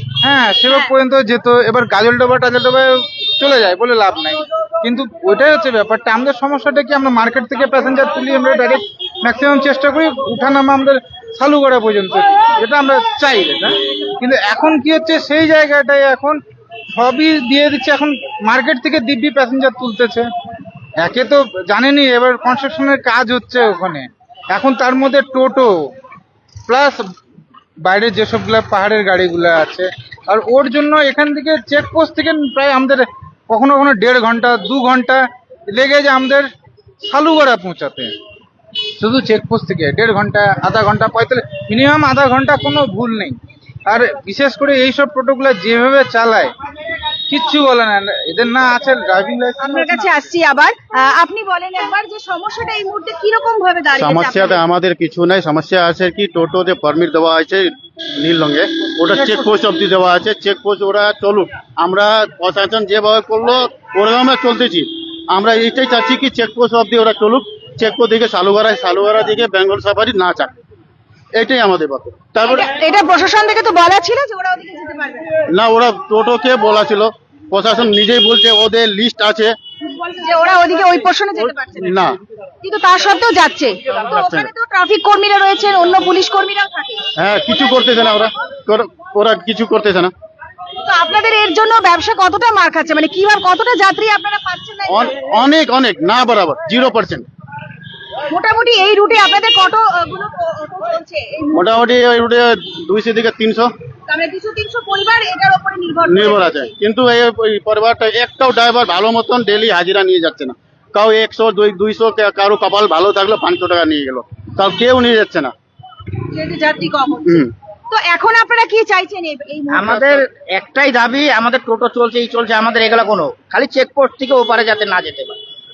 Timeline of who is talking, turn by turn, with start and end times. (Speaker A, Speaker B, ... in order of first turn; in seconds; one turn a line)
Speaker A: 0.2-16.4
Speaker A: 16.9-20.3
Speaker A: 21.0-25.7
Speaker A: 26.7-27.0
Speaker A: 27.9-36.5
Speaker A: 37.0-38.1
Speaker A: 39.0-43.4
Speaker A: 43.9-46.5
Speaker A: 47.3-50.3
Speaker B: 49.6-54.6
Speaker C: 54.0-70.5
Speaker C: 71.3-72.6
Speaker B: 72.4-75.2
Speaker C: 75.5-79.5
Speaker B: 79.9-81.9
Speaker C: 81.8-82.2
Speaker B: 82.6-87.0
Speaker C: 84.1-84.5
Speaker C: 87.2-90.1
Speaker B: 90.8-95.2
Speaker C: 94.9-97.2
Speaker B: 98.3-101.9
Speaker C: 101.5-103.7
Speaker B: 104.1-106.7
Speaker C: 106.1-115.5
Speaker B: 116.3-120.2
Speaker D: 119.7-125.4